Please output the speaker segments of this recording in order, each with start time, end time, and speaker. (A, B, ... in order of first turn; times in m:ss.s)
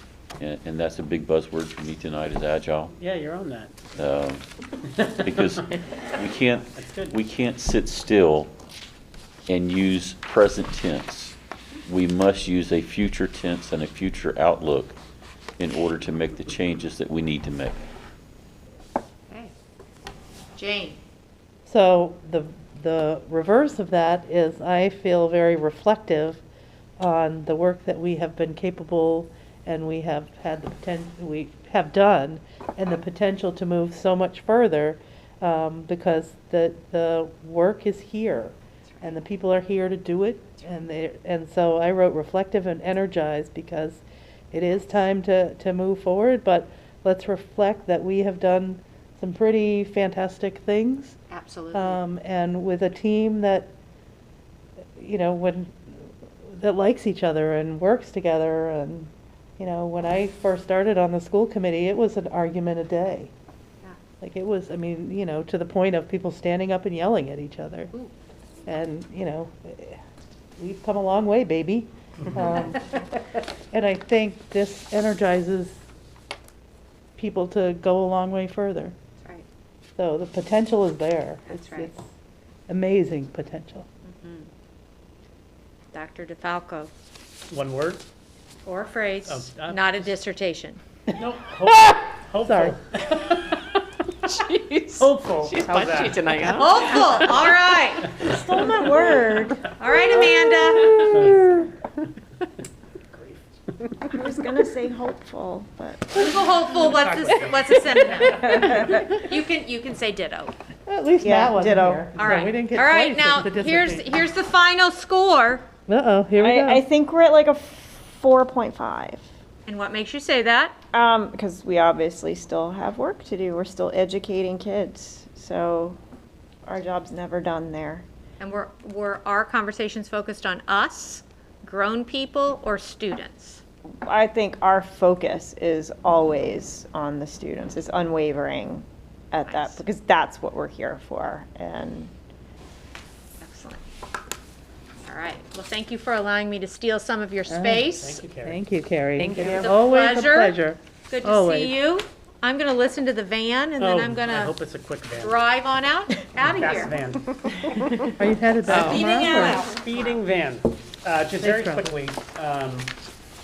0:00.4-0:02.9 A
0:02.9-0:03.8 B
0:03.9-0:04.4 A
0:04.9-0:05.2 B
0:05.1-0:08.5 A
0:06.8-0:07.2 B
0:09.5-0:15.0 A
0:15.6-0:17.8 A
0:20.6-0:21.0 C
0:21.6-0:26.4 D
0:27.0-0:51.2 D
0:51.3-0:52.0 C
0:51.7-0:53.7 D
0:55.0-0:55.8 D
0:56.4-1:03.3 D
1:04.2-1:07.9 D
1:08.6-1:10.0 D
1:10.6-1:13.1 D
1:13.7-1:15.8 D
1:17.2-1:18.9 D
1:20.0-1:22.1 D
1:21.5-1:21.9 C
1:22.7-1:23.9 D
1:24.0-1:24.5 C
1:25.9-1:26.9 C
1:27.5-1:28.0 B
1:28.6-1:30.8 C
1:29.2-1:30.2 B
1:31.1-1:33.6 B
1:32.4-1:32.8 D
1:34.2-1:37.5 E
1:34.9-1:36.6 B
1:36.5-1:38.1 C
1:38.2-1:39.7 F
1:39.6-1:41.0 C
1:40.7-1:41.4 E
1:41.0-1:41.6 B
1:43.1-1:43.4 B
1:44.1-1:46.2 F
1:46.1-1:50.5 C
1:46.8-1:47.6 B
1:48.3-1:49.1 F
1:50.9-1:54.1 D
1:51.2-1:52.1 F
1:52.1-1:55.6 C
1:55.9-1:56.8 D
1:56.4-1:59.2 F
1:59.7-2:00.8 C
2:00.9-2:06.0 F
2:06.6-2:08.0 F
2:08.4-2:13.6 C
2:14.0-2:22.1 F
2:19.4-2:19.8 C
2:23.4-2:23.8 C
2:25.0-2:28.2 C
2:27.5-2:27.9 D
2:27.9-2:28.6 B
2:28.4-2:31.8 D
2:29.2-2:29.6 E
2:29.4-2:34.5 C
2:33.8-2:35.4 B
2:35.2-2:36.9 C
2:36.3-2:37.6 B
2:37.6-2:38.1 C
2:38.1-2:39.6 D
2:38.7-2:39.4 E
2:38.7-2:40.1 C
2:39.4-2:42.9 B
2:41.4-2:41.9 D